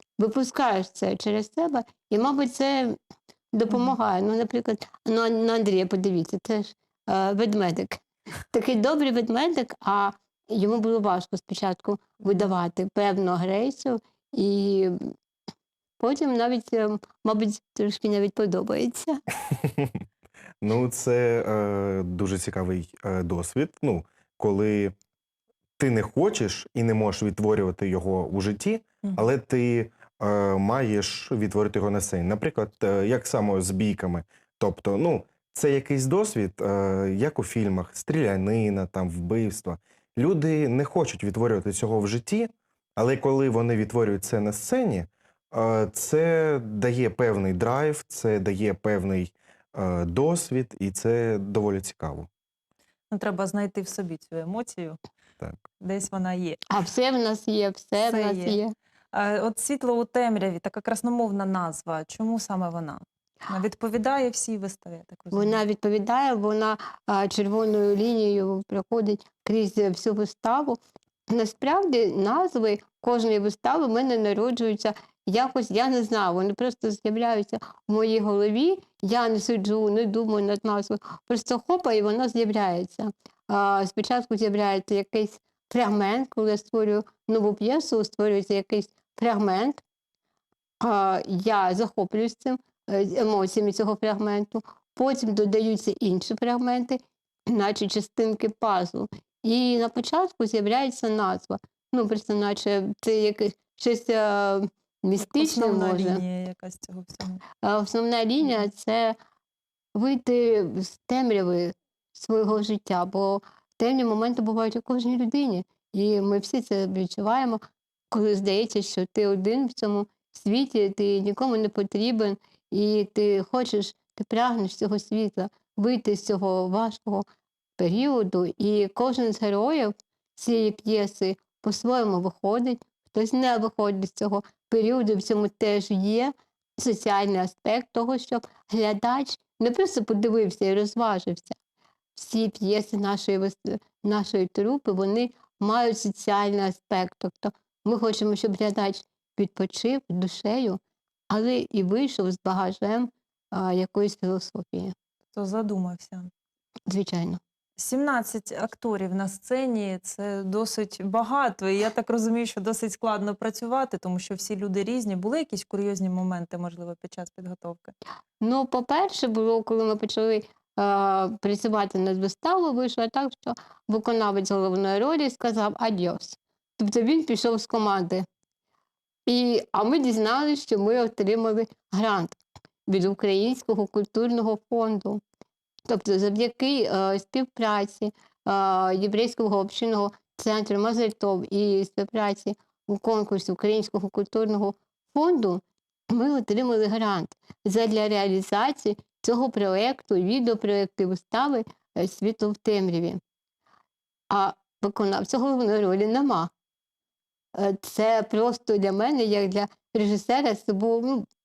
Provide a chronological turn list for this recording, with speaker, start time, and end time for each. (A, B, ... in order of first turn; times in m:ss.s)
0:00.2-0:03.0 A
0:03.5-0:15.1 A
0:16.0-0:19.2 A
0:19.5-0:20.0 B
0:20.6-0:25.0 B
0:25.8-0:52.3 B
0:53.1-0:55.0 C
0:55.8-0:56.6 C
0:56.7-0:58.7 A
0:58.1-0:58.6 C
0:59.1-1:05.6 C
1:05.3-1:29.8 A
1:30.8-1:46.2 A
1:45.2-1:47.4 C
1:47.6-1:49.2 A
1:50.0-2:07.2 A
2:07.8-2:21.6 A
2:22.2-2:34.9 A
2:35.3-2:36.3 C
2:36.9-2:37.4 A
2:37.8-2:48.0 C
2:48.4-2:58.2 A
2:59.3-3:05.2 A
3:05.9-3:23.2 A
3:24.3-3:26.5 A
3:27.6-3:31.3 A